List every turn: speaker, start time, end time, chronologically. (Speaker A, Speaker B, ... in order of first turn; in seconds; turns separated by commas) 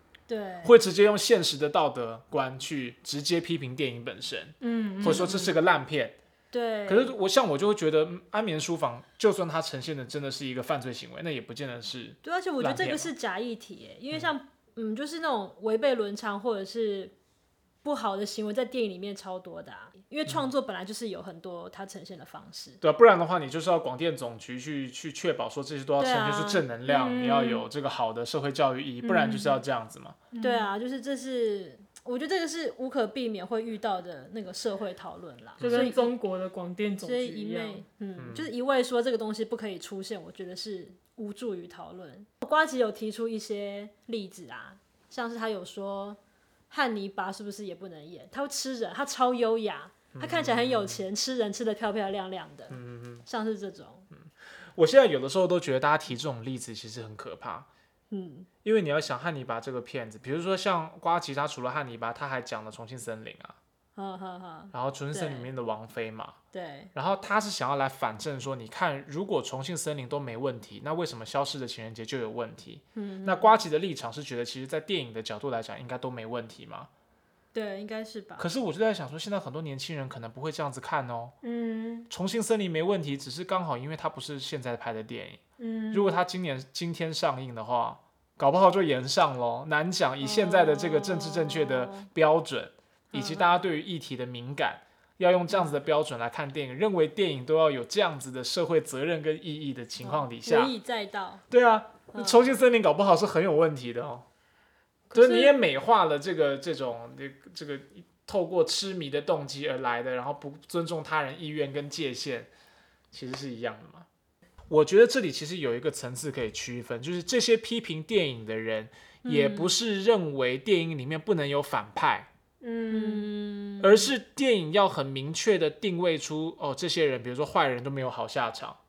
Speaker A: 0.3-0.8, Speaker B: 0.6-6.2, Speaker C: 4.6-5.4, Speaker A: 5.0-5.5, Speaker A: 6.5-7.1, Speaker B: 6.9-13.1, Speaker A: 12.2-17.1, Speaker A: 17.8-22.8, Speaker B: 22.8-30.2, Speaker A: 26.0-26.6, Speaker C: 26.8-27.7, Speaker C: 29.0-29.6, Speaker C: 30.3-30.7, Speaker A: 30.4-36.1, Speaker B: 35.6-35.9, Speaker C: 35.6-37.8, Speaker A: 37.0-46.2, Speaker B: 38.2-38.5, Speaker A: 46.7-54.1, Speaker B: 50.1-51.0, Speaker B: 52.7-53.2, Speaker B: 54.1-57.7, Speaker A: 58.1-58.5, Speaker B: 58.6-63.5, Speaker A: 64.0-65.5, Speaker B: 64.7-66.3, Speaker A: 66.5-66.9, Speaker B: 66.9-76.9, Speaker A: 72.9-73.6, Speaker A: 77.5-78.5, Speaker B: 78.4-81.3, Speaker C: 81.4-82.1, Speaker B: 82.1-85.4, Speaker C: 85.6-86.2, Speaker B: 85.9-100.7, Speaker A: 90.2-92.1, Speaker A: 93.1-93.6, Speaker A: 100.0-101.4, Speaker B: 101.5-104.2, Speaker A: 102.1-102.4, Speaker C: 105.1-105.6, Speaker B: 105.1-112.5, Speaker B: 113.1-114.0, Speaker B: 114.7-122.3, Speaker A: 119.2-119.7, Speaker C: 122.6-123.3, Speaker A: 122.9-124.1, Speaker B: 123.8-128.8